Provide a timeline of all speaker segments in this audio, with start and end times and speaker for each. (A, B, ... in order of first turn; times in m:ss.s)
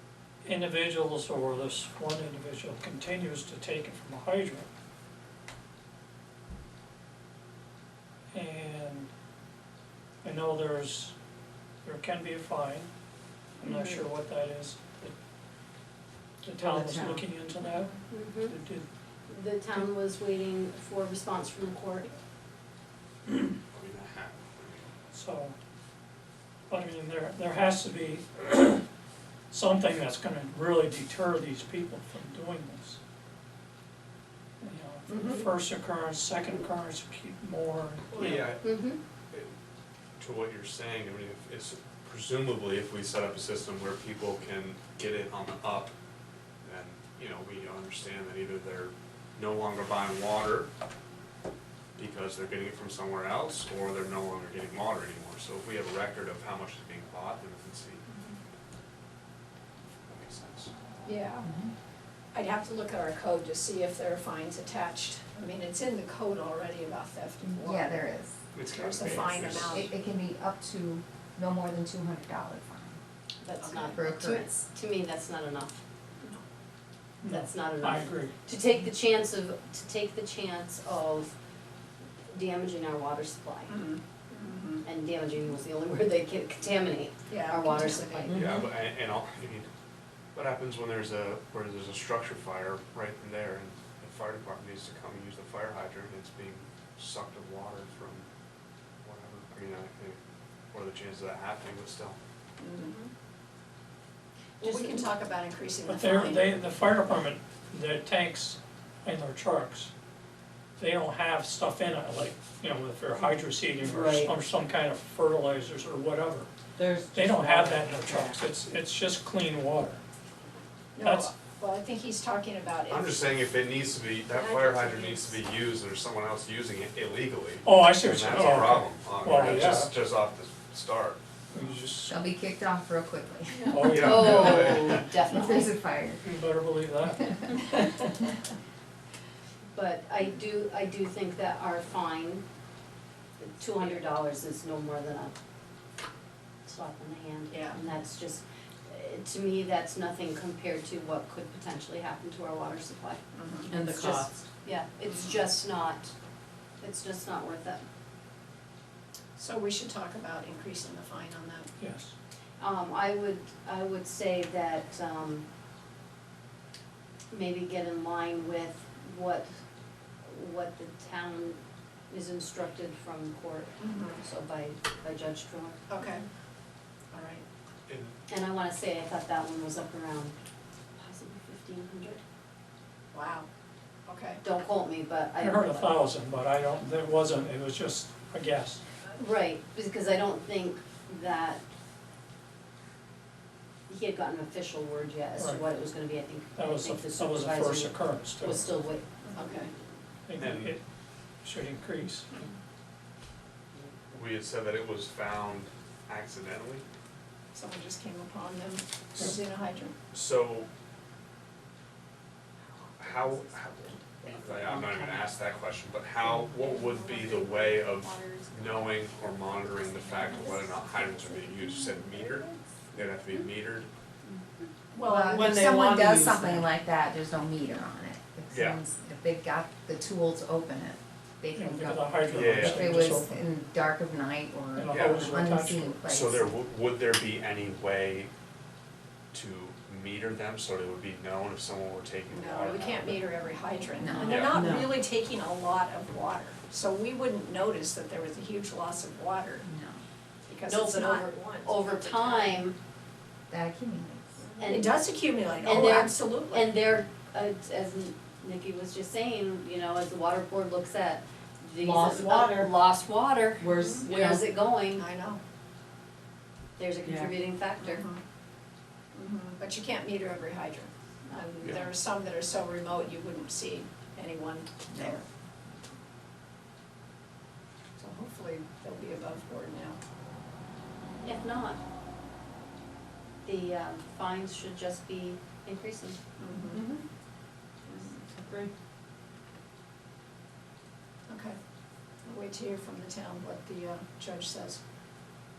0:00.4-0:04.7 A
0:08.3-0:09.1 A
0:10.2-0:11.2 A
0:11.8-0:12.9 A
0:13.6-0:15.2 A
0:13.6-0:14.0 B
0:16.4-0:18.9 A
0:18.1-0:18.5 C
0:19.3-0:22.1 C
0:23.7-0:24.9 D
0:25.1-0:25.6 A
0:26.7-0:28.8 A
0:29.5-0:33.0 A
0:34.6-0:38.4 A
0:35.1-0:35.4 B
0:38.2-0:38.8 D
0:38.3-0:39.0 C
0:40.2-0:45.9 D
0:46.6-0:50.7 D
0:52.0-0:58.0 D
1:00.0-1:00.7 D
1:01.0-1:01.5 B
1:01.4-1:01.7 E
1:02.3-1:08.1 B
1:07.5-1:08.4 E
1:08.5-1:09.9 D
1:08.7-1:09.9 B
1:09.1-1:13.0 E
1:13.4-1:15.8 C
1:13.6-1:14.0 B
1:13.9-1:14.5 E
1:17.2-1:18.3 A
1:17.3-1:21.3 C
1:22.3-1:23.8 C
1:23.7-1:24.8 B
1:24.8-1:28.4 C
1:27.3-1:28.3 B
1:28.3-1:29.7 D
1:30.3-1:38.3 D
1:39.0-1:40.2 D
1:40.7-1:42.2 D
1:42.6-1:43.1 B
1:44.6-1:45.0 C
1:44.6-1:46.5 B
1:45.9-1:49.9 A
1:50.8-1:56.5 A
1:53.8-1:54.3 F
1:56.8-1:58.4 F
1:57.1-2:00.0 A
2:01.0-2:03.2 B
2:01.0-2:01.3 A
2:02.9-2:11.2 D
2:04.3-2:04.9 C
2:07.6-2:09.9 A
2:11.5-2:12.2 A
2:12.0-2:14.0 E
2:13.7-2:15.7 C
2:13.7-2:15.0 A
2:13.8-2:15.2 D
2:14.9-2:16.3 E
2:16.2-2:17.5 A
2:19.7-2:22.4 C
2:23.4-2:25.4 C
2:26.7-2:33.2 C
2:27.5-2:27.8 B
2:33.3-2:33.8 B
2:33.7-2:34.3 F
2:33.9-2:34.3 E
2:34.6-2:36.1 C
2:36.8-2:37.8 C
2:39.4-2:41.7 B
2:41.8-2:42.1 A
2:42.6-2:45.5 C
2:47.3-2:49.5 C
2:50.2-2:55.8 C
2:53.8-2:54.2 B
2:55.9-2:56.2 B
2:57.1-2:57.4 B
2:57.9-2:58.2 D
2:58.3-3:00.4 C
3:01.0-3:02.2 C
3:03.1-3:03.5 B
3:04.1-3:04.4 B
3:04.4-3:06.0 C
3:05.4-3:08.8 A
3:09.2-3:11.6 C
3:13.9-3:19.7 C
3:15.4-3:15.6 A
3:16.6-3:18.7 A
3:19.2-3:19.7 B
3:20.3-3:20.8 A
3:20.4-3:20.7 D
3:21.4-3:22.3 A
3:24.1-3:26.8 D
3:27.5-3:30.0 B
3:30.1-3:30.7 D
3:33.0-3:43.9 D
3:36.7-3:37.5 B
3:38.0-3:38.5 B
3:39.9-3:40.5 B
3:44.9-3:45.3 B
3:45.0-3:56.6 E
3:45.3-3:46.7 F
3:48.5-3:48.8 D
3:51.5-3:53.4 A
3:52.3-3:53.2 D
3:54.8-3:56.0 A
3:54.9-3:55.4 D
3:56.1-3:58.3 D
3:59.3-4:03.3 D
4:02.3-4:09.7 B
4:04.0-4:04.9 E
4:04.2-4:04.7 D
4:04.6-4:04.9 F
4:09.6-4:10.0 E
4:10.5-4:12.6 B
4:10.7-4:12.8 C
4:13.5-4:14.4 E
4:14.6-4:15.0 C
4:14.6-4:16.7 B
4:15.6-4:25.1 C
4:21.8-4:22.7 F
4:23.6-4:24.4 F
4:24.9-4:25.4 B
4:26.8-4:28.1 C
4:27.8-4:28.2 B
4:29.1-4:35.2 B
4:31.3-4:31.6 C
4:34.9-4:35.2 E
4:38.0-4:40.0 B
4:41.2-4:41.8 C
4:43.4-4:46.2 C
4:46.4-4:46.8 B
4:46.8-4:47.0 F
4:48.3-4:48.7 F
4:51.3-4:51.6 B
4:52.2-4:54.8 B